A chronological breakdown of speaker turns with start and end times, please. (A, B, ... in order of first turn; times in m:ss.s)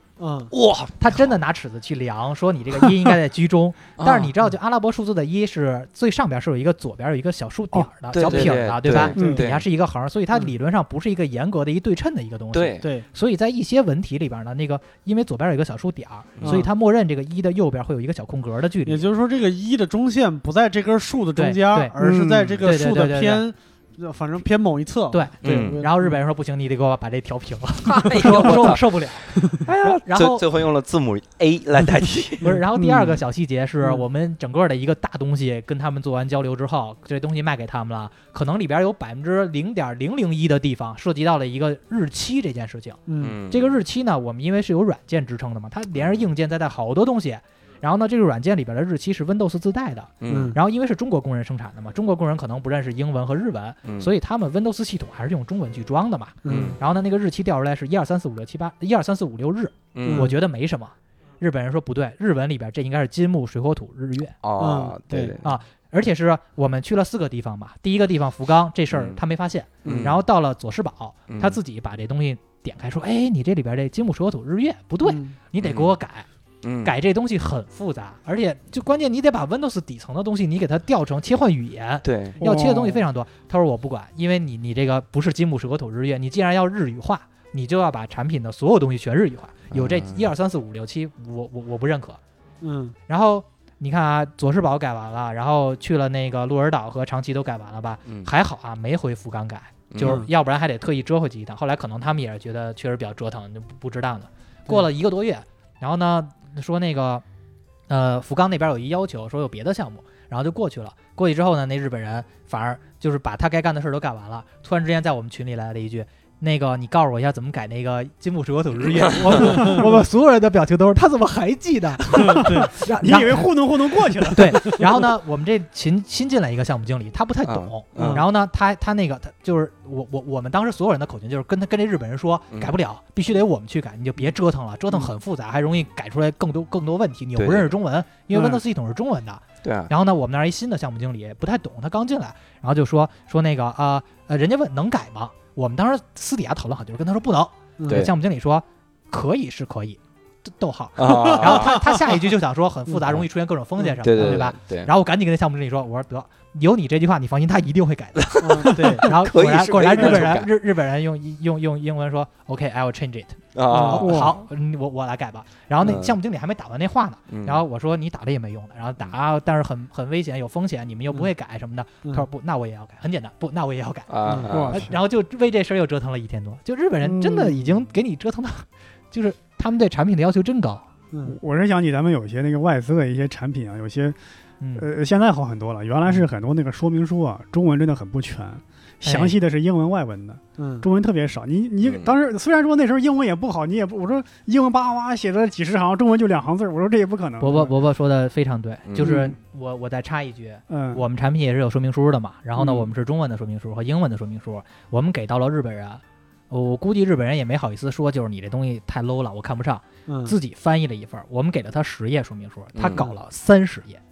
0:00.2-0:00.5 A
0:00.5-0:01.4 B
0:01.0-0:19.0 C
0:04.0-0:04.3 B
0:08.1-0:09.7 B
0:09.1-0:09.4 A
0:09.2-0:09.4 D
0:12.5-0:12.9 B
0:12.8-0:13.1 A
0:16.4-0:16.7 B
0:16.4-0:16.7 A
0:18.9-0:26.2 A
0:21.4-0:21.9 C
0:22.0-0:22.6 D
0:22.6-0:23.4 C
0:25.1-0:30.4 C
0:25.4-0:25.8 B
0:27.9-0:28.8 B
0:29.5-0:32.6 B
0:32.4-1:04.3 C
0:32.5-0:33.2 A
0:43.1-0:43.4 A
0:43.2-0:43.8 B
0:45.9-0:46.3 B
0:50.2-0:50.6 B
0:50.3-0:50.6 A
0:53.8-0:54.1 B
0:56.4-0:56.8 A
0:56.5-0:56.8 B
1:00.0-1:00.3 B
1:00.0-1:00.4 A
1:04.4-1:05.5 B
1:04.6-1:05.4 A
1:05.4-1:16.3 C
1:08.9-1:09.2 B
1:09.8-1:10.2 B
1:11.3-1:11.6 B
1:15.0-1:15.4 A
1:15.6-1:16.0 B
1:16.6-1:16.9 B
1:16.8-1:32.2 C
1:22.0-1:22.4 B
1:22.4-1:23.0 D
1:29.7-1:30.3 B
1:32.6-1:33.0 A
1:33.1-1:47.2 C
1:38.1-1:38.3 B
1:39.9-1:40.3 B
1:40.0-1:40.3 A
1:47.9-3:00.8 C
1:59.0-1:59.6 B
1:59.4-1:59.8 A
2:02.1-2:02.7 A
2:02.4-2:04.8 D
2:04.5-2:04.9 A
2:07.4-2:08.2 B
2:08.0-2:08.3 A
2:17.4-2:17.7 B
2:18.3-2:18.6 A
2:19.6-2:19.9 B
2:27.8-2:28.1 A
2:31.0-2:31.8 B
2:31.1-2:32.2 A
2:33.8-2:34.4 A
2:34.0-2:34.9 B
2:38.2-2:40.5 B
2:38.4-2:39.1 A
2:43.5-2:44.2 B
2:43.7-2:44.3 A
2:44.0-2:44.4 D
2:45.8-2:46.2 B
2:47.3-2:47.6 B
2:54.1-2:54.9 B
2:54.3-2:54.5 A
2:54.5-2:54.9 D
2:57.0-2:57.7 D
3:01.1-3:01.4 A
3:01.3-3:04.2 D
3:04.6-3:04.9 C
3:04.8-3:17.7 D
3:09.0-3:09.4 C
3:10.6-3:10.9 A
3:11.8-3:12.2 B
3:17.4-3:34.0 C
3:18.9-3:19.2 B
3:19.0-3:19.3 A
3:20.7-3:21.0 D
3:22.6-3:22.9 A
3:30.1-3:30.4 A
3:32.8-3:33.1 B